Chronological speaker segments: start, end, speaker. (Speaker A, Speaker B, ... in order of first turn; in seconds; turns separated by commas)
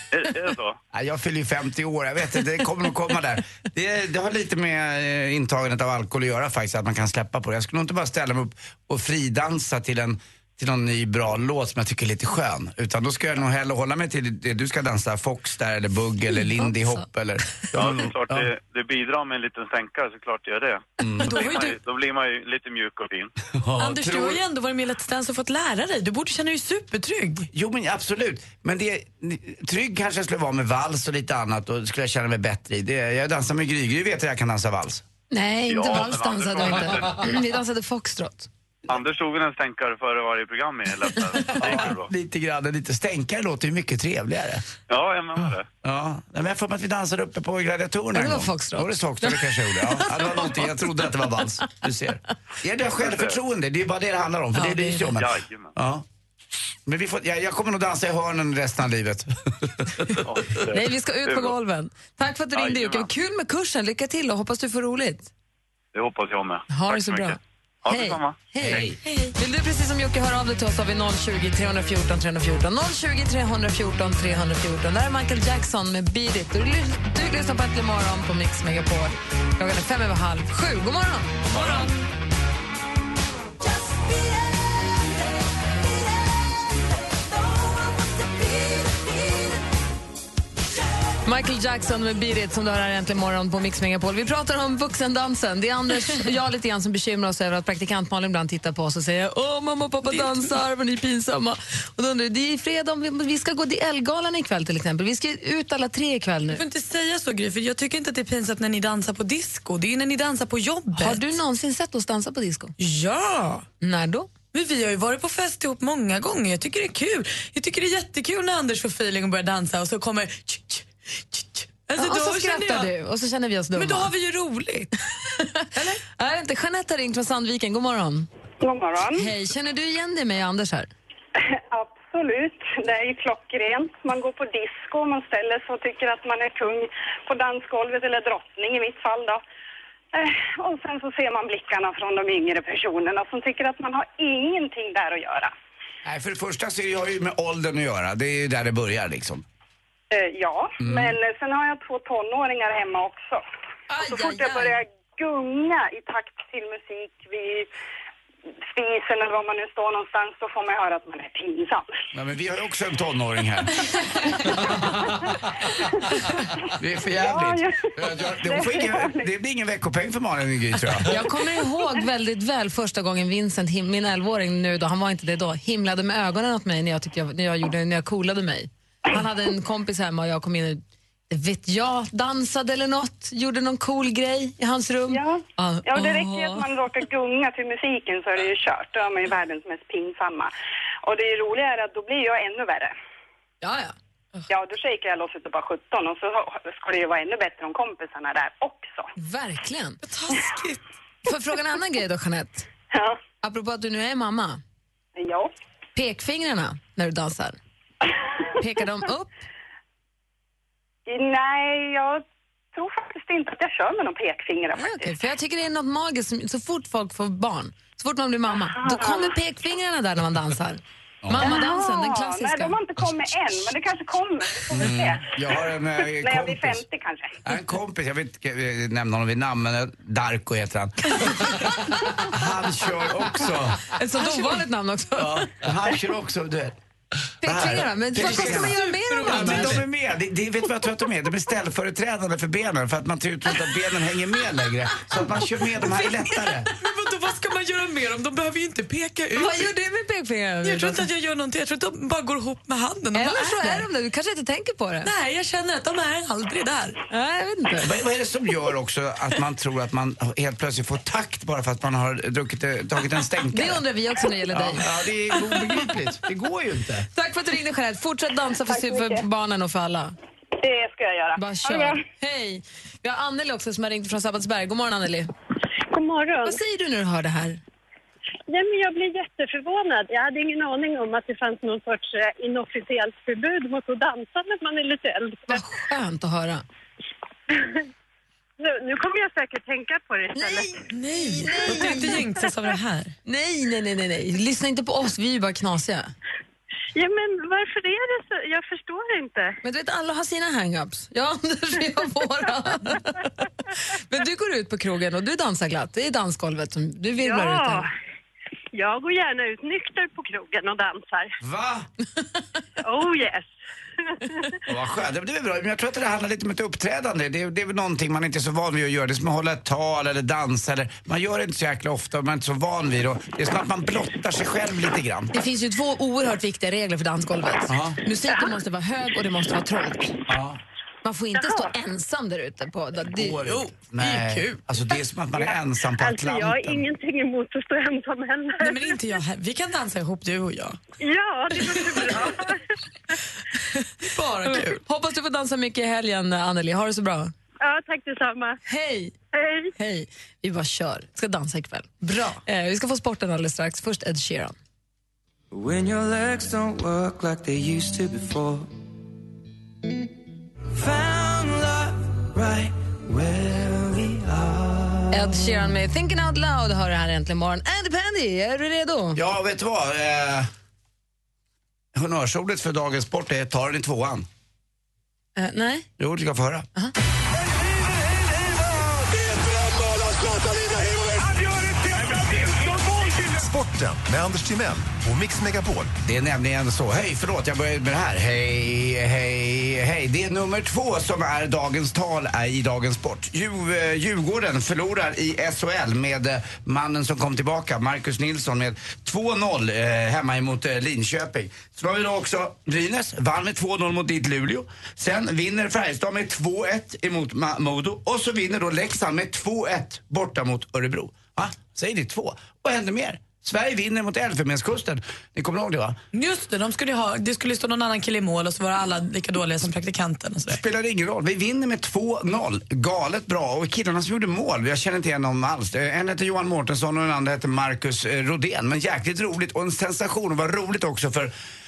Speaker A: 0.1-0.8, Speaker B: 0.9-18.5, Speaker A: 17.7-23.3, Speaker B: 21.0-21.4, Speaker C: 21.2-21.8, Speaker B: 23.5-24.4, Speaker C: 23.8-27.5, Speaker B: 27.5-35.0, Speaker D: 35.3-38.5, Speaker A: 35.7-37.4, Speaker A: 38.9-42.1, Speaker B: 41.6-44.6, Speaker A: 44.9-45.7, Speaker B: 45.8-56.0, Speaker D: 48.1-50.5, Speaker A: 53.0-53.3, Speaker C: 54.5-55.0, Speaker A: 55.1-55.7, Speaker B: 56.9-60.2, Speaker A: 60.2-61.5, Speaker D: 60.7-65.3, Speaker A: 62.5-63.1, Speaker A: 65.9-68.9, Speaker D: 66.7-81.4, Speaker B: 68.6-69.0, Speaker C: 69.0-69.3, Speaker B: 81.5-81.9, Speaker C: 81.5-81.8, Speaker D: 91.2-106.6, Speaker C: 106.5-111.2, Speaker D: 111.0-112.7, Speaker C: 112.8-113.7, Speaker D: 113.8-114.3, Speaker C: 114.5-122.9, Speaker D: 122.0-124.1, Speaker C: 123.7-124.9, Speaker D: 125.3-128.3, Speaker E: 128.6-129.3, Speaker D: 129.1-130.9, Speaker E: 131.3-139.4, Speaker E: 140.1-145.5, Speaker B: 146.0-149.4, Speaker E: 150.1-153.4, Speaker B: 150.8-151.2, Speaker D: 153.9-154.8, Speaker E: 154.0-157.7, Speaker E: 158.7-161.9, Speaker B: 162.1-164.4, Speaker B: 166.7-171.1, Speaker E: 167.2-169.3, Speaker D: 171.1-186.6, Speaker E: 185.1-190.5, Speaker E: 191.0-192.9, Speaker D: 193.6-193.9, Speaker E: 194.5-199.1, Speaker D: 199.2-200.0, Speaker C: 200.0-200.8, Speaker D: 201.2-202.7, Speaker E: 202.9-203.2, Speaker D: 203.4-204.6, Speaker E: 205.2-205.5, Speaker D: 205.9-207.6, Speaker D: 208.6-209.4, Speaker E: 211.1-215.1, Speaker D: 214.8-222.8, Speaker E: 218.7-219.3, Speaker B: 221.2-221.6, Speaker E: 221.4-225.6, Speaker B: 224.7-226.8, Speaker E: 226.2-227.4, Speaker B: 227.4-233.8, Speaker D: 233.9-235.5, Speaker C: 234.2-234.6, Speaker B: 235.2-236.8, Speaker D: 237.4-239.8, Speaker B: 237.4-246.7, Speaker C: 238.2-239.8, Speaker C: 245.9-249.7, Speaker D: 249.3-251.1, Speaker C: 250.6-253.8, Speaker D: 253.1-255.1, Speaker C: 255.0-257.0, Speaker D: 257.1-257.9, Speaker B: 257.8-263.8, Speaker D: 263.5-264.9, Speaker B: 264.5-267.1, Speaker D: 267.1-270.1, Speaker E: 270.6-272.0, Speaker D: 271.4-275.3, Speaker F: 275.9-276.6, Speaker D: 276.4-277.6, Speaker F: 278.5-285.6, Speaker D: 285.5-286.6, Speaker F: 288.6-290.8, Speaker D: 290.3-292.3, Speaker C: 290.9-293.1, Speaker D: 293.2-296.1, Speaker F: 296.9-299.6, Speaker D: 299.6-307.9, Speaker F: 307.2-307.9, Speaker F: 308.7-311.3, Speaker B: 311.4-311.9, Speaker F: 312.8-313.5, Speaker B: 314.6-325.3, Speaker D: 325.3-330.1, Speaker B: 327.7-328.0, Speaker B: 330.3-330.6, Speaker D: 331.0-333.4, Speaker F: 331.3-331.7, Speaker B: 333.0-336.9, Speaker C: 333.4-334.6, Speaker F: 335.9-339.0, Speaker C: 338.6-340.8, Speaker F: 341.0-342.6, Speaker C: 341.6-342.2, Speaker C: 344.0-344.8, Speaker D: 344.4-347.3, Speaker F: 347.6-348.6, Speaker D: 348.6-349.1, Speaker F: 349.3-349.7, Speaker D: 349.8-354.5, Speaker C: 352.0-352.4, Speaker G: 355.5-358.7, Speaker G: 360.7-365.3, Speaker D: 365.1-369.2, Speaker B: 369.1-370.5, Speaker B: 371.9-374.3, Speaker D: 375.4-375.9, Speaker B: 376.0-376.7, Speaker H: 383.3-385.9, Speaker B: 386.0-416.0, Speaker C: 416.1-420.6, Speaker B: 420.4-431.3